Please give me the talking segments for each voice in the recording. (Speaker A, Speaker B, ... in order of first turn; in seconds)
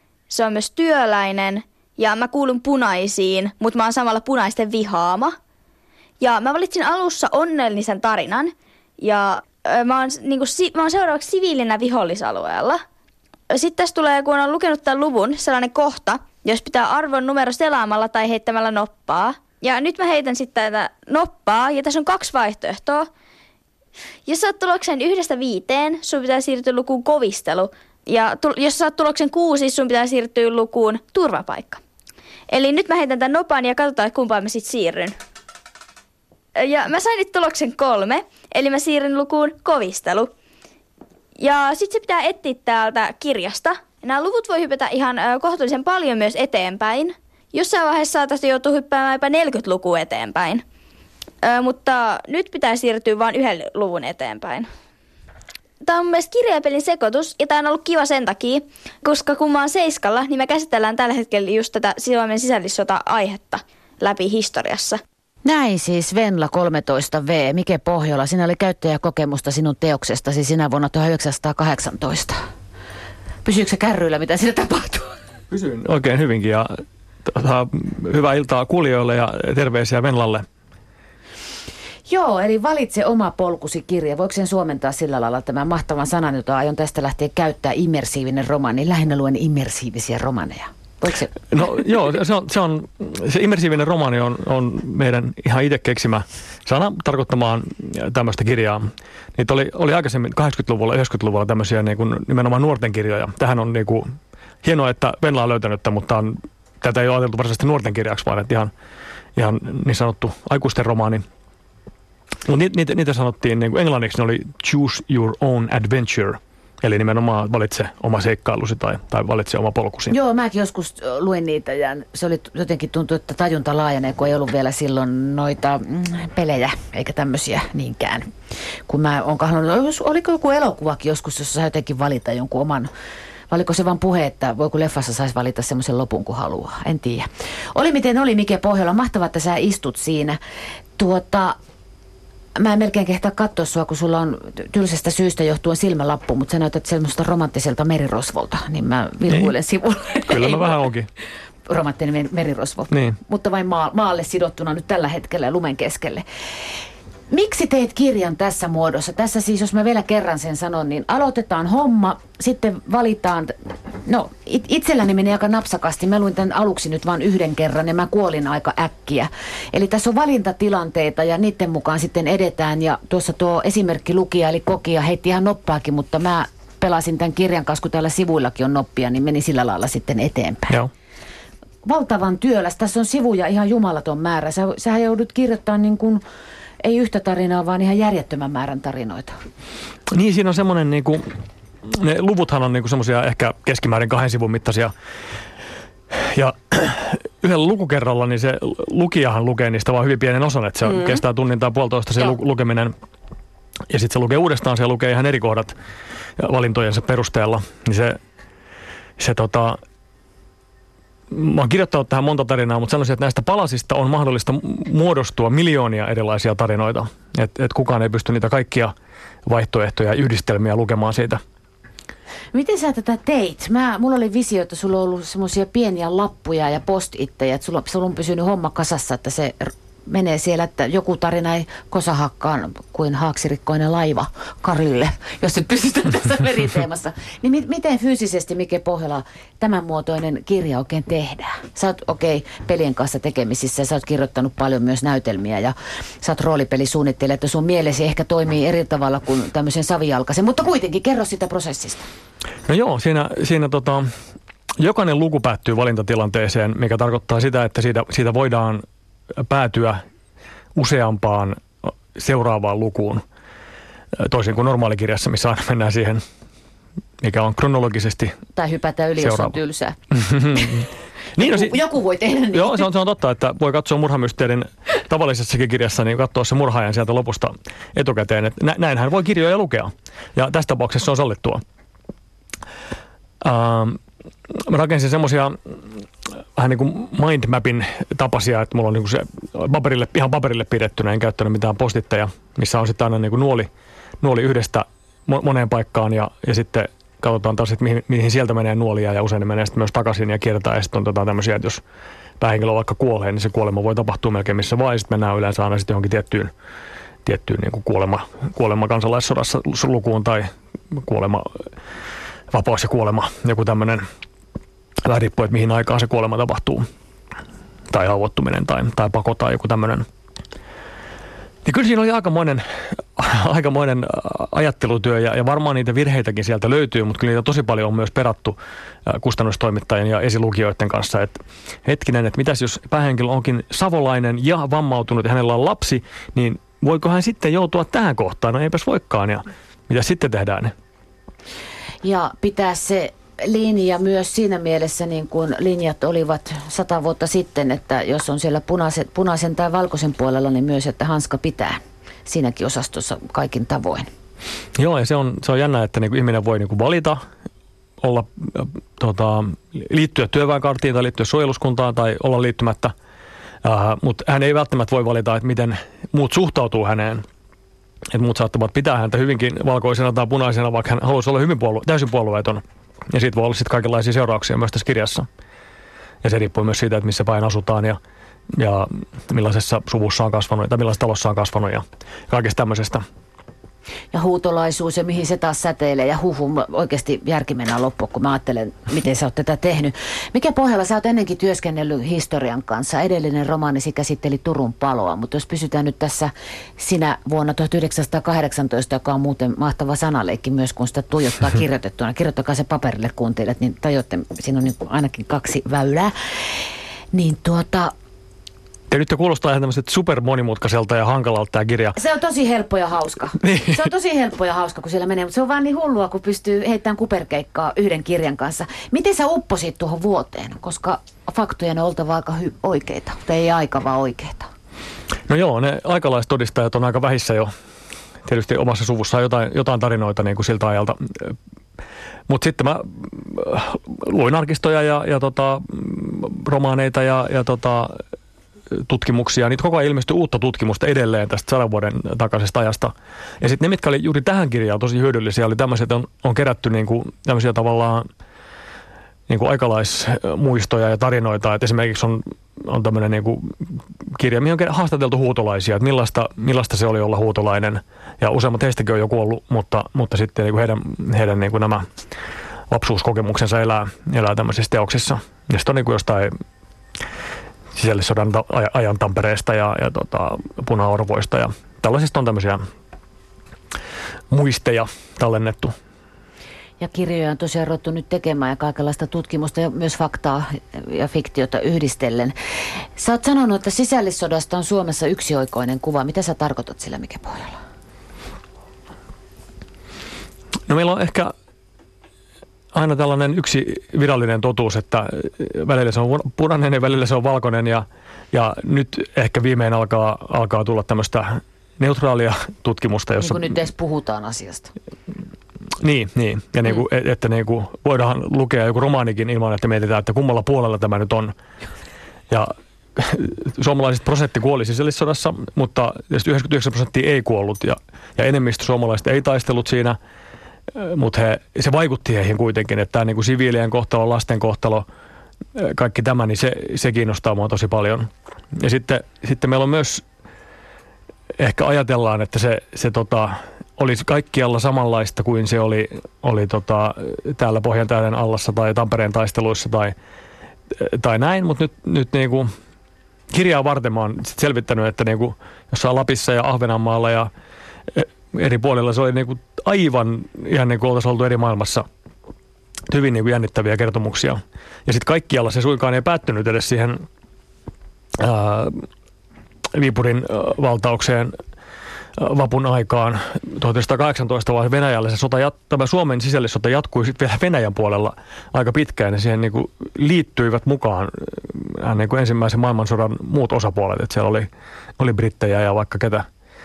Speaker A: 0.3-5.3, 6.2-12.8, 13.5-23.1, 24.2-31.8, 32.5-35.2, 36.5-40.3, 41.4-50.6, 51.4-54.7, 55.8-65.0
Speaker B: 65.4-72.4, 73.4-75.2, 82.1-91.4, 120.1-128.3, 128.9-132.9, 133.5-140.4, 141.0-141.6, 142.6-150.8, 151.7-156.2, 157.3-163.5, 164.1-180.8, 181.8-186.2, 186.8-189.3, 222.5-252.1, 268.6-270.0, 270.5-272.9, 342.0-354.1, 384.1-406.1, 407.1-407.9, 411.9-424.5, 476.8-482.3, 482.9-487.6, 503.2-504.7
Speaker C: 75.5-76.7, 77.2-80.5, 91.5-104.1, 104.6-108.7, 109.3-111.2, 112.5-120.1, 150.3-151.1, 152.9-153.2, 190.1-191.2, 191.8-194.9, 196.1-202.9, 203.9-205.7, 206.4-208.2, 209.2-209.8, 211.3-218.9, 219.4-221.4, 252.7-254.1, 254.8-258.8, 259.4-260.0, 260.7-263.2, 264.2-266.2, 267.2-268.3, 269.2-269.6, 270.1-270.8, 271.4-271.8, 272.5-281.6, 283.4-284.0, 284.5-285.8, 286.6-293.7, 294.2-301.8, 302.4-306.5, 307.2-311.6, 312.5-314.0, 315.0-316.8, 317.9-320.1, 321.6-322.6, 323.1-340.7, 354.8-357.2, 358.0-362.9, 363.6-367.2, 368.1-375.3, 376.2-378.0, 378.5-383.0, 408.9-412.0, 413.4-413.8, 425.3-427.5, 428.2-431.3, 432.3-438.0, 438.7-448.1, 449.3-461.8, 462.7-466.3, 467.8-472.6, 474.3-475.7, 490.7-491.3, 492.7-503.5, 505.8-511.3, 512.3-520.0, 520.7-524.9, 525.5-530.0, 531.4-539.9, 540.7-542.5, 543.3-547.3, 547.9-551.9, 552.9-557.0, 558.2-558.9, 559.7-561.3, 562.2-576.2